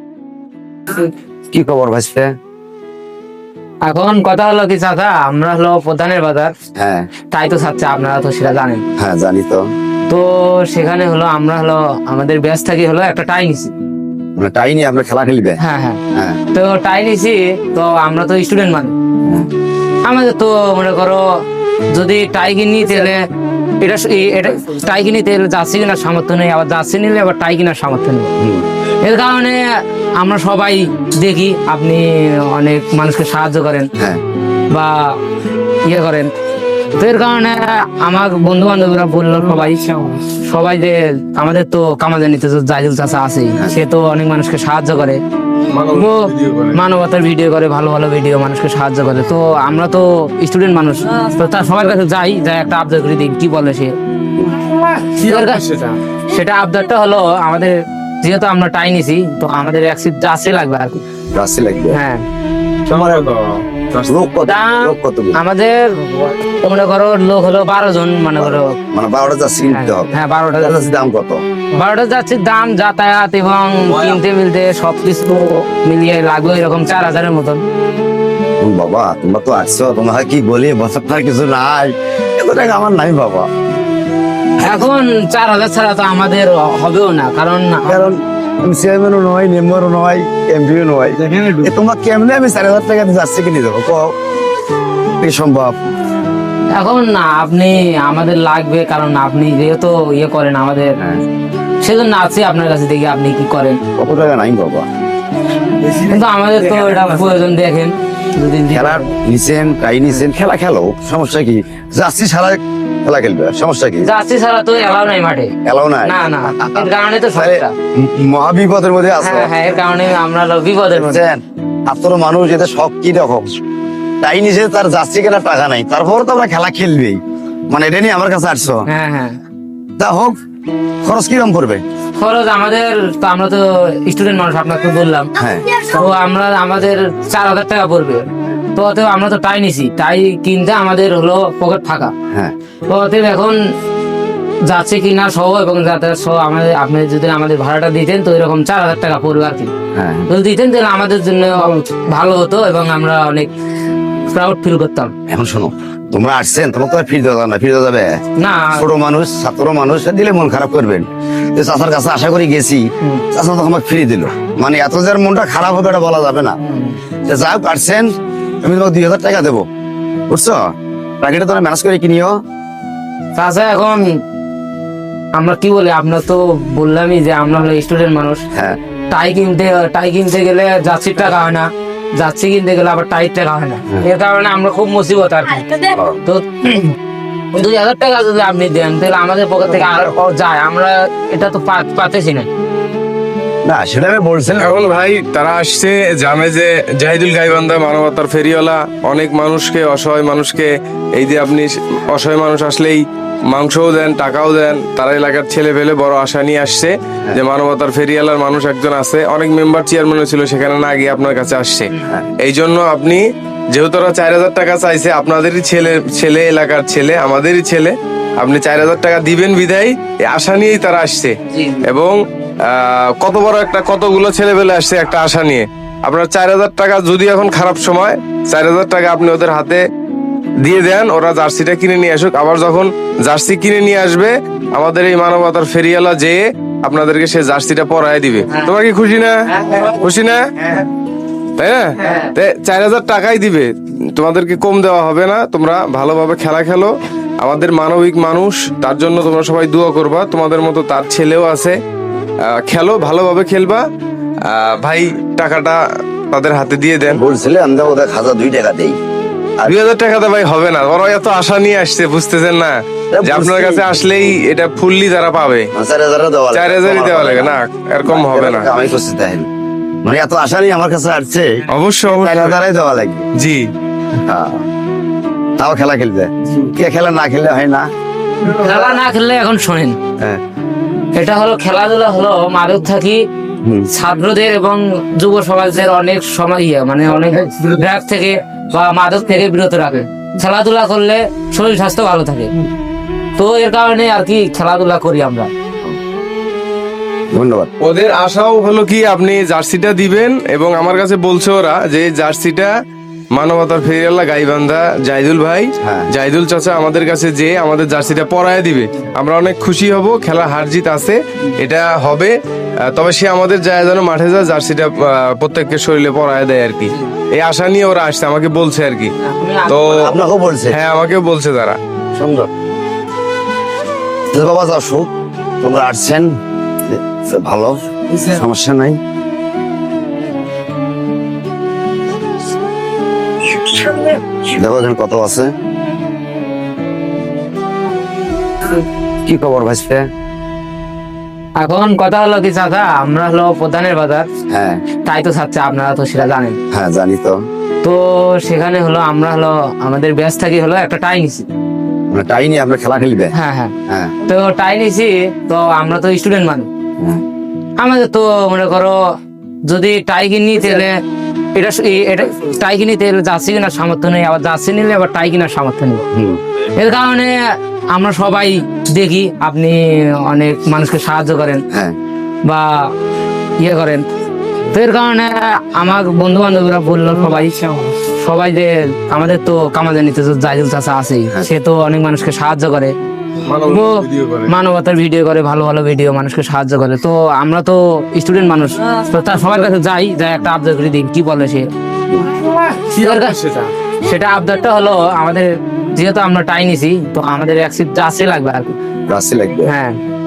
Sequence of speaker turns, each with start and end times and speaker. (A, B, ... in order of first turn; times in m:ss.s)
0:01.5-0:02.3 A
0:03.9-0:06.5 B
0:06.8-0:07.1 A
0:07.3-0:08.8 B
0:09.0-0:09.7 A
0:10.1-0:13.7 B
0:14.4-0:15.6 A
0:15.6-0:16.0 B
0:16.1-0:16.4 A
0:16.5-0:18.9 B
0:20.0-0:21.2 B
0:21.9-0:23.2 B
0:23.8-0:28.3 B
0:28.4-0:28.7 A
0:29.0-0:29.6 B
0:30.2-0:33.9 B
0:34.7-0:35.2 B
0:35.8-0:36.3 B
0:36.9-0:45.2 B
0:45.7-0:46.8 C
0:45.9-0:53.9 B
0:54.9-0:56.0 C
0:55.0-0:55.6 B
0:56.3-1:01.0 B
1:01.3-1:02.0 A
1:01.9-1:02.2 B
1:02.9-1:04.2 C
1:02.9-1:03.2 A
1:04.1-1:05.4 A
1:04.4-1:08.7 B
1:08.4-1:11.4 A
1:09.6-1:10.9 B
1:11.7-1:17.6 B
1:18.6-1:23.5 A
1:24.6-1:27.9 B
1:27.8-1:34.1 A
1:35.2-1:35.7 A
1:36.7-1:41.0 B
1:41.0-1:41.2 A
1:41.8-1:43.8 B
1:44.0-1:44.9 A
1:46.0-1:49.1 B
1:48.7-1:54.1 A
1:54.0-1:55.5 B
1:55.6-1:59.5 A
1:56.0-1:57.7 B
1:59.2-2:01.2 B
2:00.9-2:03.5 A
2:04.2-2:08.8 A
2:08.9-2:09.4 B
2:10.0-2:10.3 A
2:11.0-2:11.8 A
2:12.2-2:22.1 B
2:15.4-2:15.7 A
2:22.9-2:23.6 B
2:24.6-2:29.7 B
2:29.9-2:30.3 A
2:30.3-2:33.5 B
2:34.3-2:35.1 B
2:35.3-2:38.2 A
2:38.4-2:38.9 B
2:38.7-2:46.6 A
2:46.6-2:47.0 B
2:47.2-2:49.6 A
2:50.3-2:50.7 A
2:51.2-2:52.4 A
2:53.4-2:54.0 B
2:55.4-2:58.4 B
2:58.5-2:58.8 A
2:59.1-3:07.0 B
3:05.9-3:06.2 A
3:07.5-3:12.5 B
3:13.6-3:14.7 A
3:14.6-3:31.9 C
3:32.0-3:32.3 A
3:32.4-3:33.2 C
3:33.7-3:49.8 C
3:41.5-3:41.8 B
3:50.6-4:00.4 C
3:59.5-3:59.9 B
4:01.6-4:11.8 C
4:02.0-4:02.3 B
4:12.5-4:13.8 C
4:14.5-4:15.8 C
4:16.3-4:17.2 C
4:17.1-4:19.0 A
4:19.6-4:25.7 C
4:23.1-4:23.9 A
4:25.7-4:29.5 A
4:26.5-4:28.7 C
4:30.0-4:33.2 A
4:31.7-4:32.6 C
4:33.4-4:33.6 C
4:34.2-4:34.6 A
4:35.6-4:37.9 A
4:38.4-4:40.0 B
4:41.1-4:43.2 B
4:43.6-4:43.9 A
4:43.9-4:52.5 B
4:53.4-4:55.5 B
4:57.3-4:57.7 A
4:57.8-5:02.7 C
5:03.4-5:12.3 C
5:05.8-5:06.1 A
5:12.9-5:19.1 C
5:19.2-5:19.8 B
5:19.7-5:20.1 C
5:19.9-5:20.8 A
5:20.7-5:21.8 C
5:22.2-5:22.5 A
5:24.3-5:26.3 A
5:26.8-5:29.0 A
5:33.9-5:35.5 A
5:39.2-5:40.1 A
5:41.6-5:44.2 B
5:44.5-5:44.8 A
5:45.0-5:46.6 B
5:46.7-5:47.4 A
5:47.8-5:51.5 B
5:52.1-5:53.3 A
5:53.3-5:56.7 B
5:53.9-5:54.1 A
5:57.8-5:59.0 B
5:59.7-6:01.0 B
6:01.5-6:06.0 B
6:06.1-6:06.4 A
6:06.8-6:07.3 B
6:07.9-6:11.6 B
6:11.7-6:12.0 A
6:13.6-6:14.0 B
6:14.7-6:22.9 B
6:23.4-6:24.5 C
6:23.6-6:31.7 B
6:32.3-6:33.4 B
6:32.9-6:33.7 C
6:34.0-6:38.7 B
6:39.1-6:39.7 A
6:39.6-6:40.0 B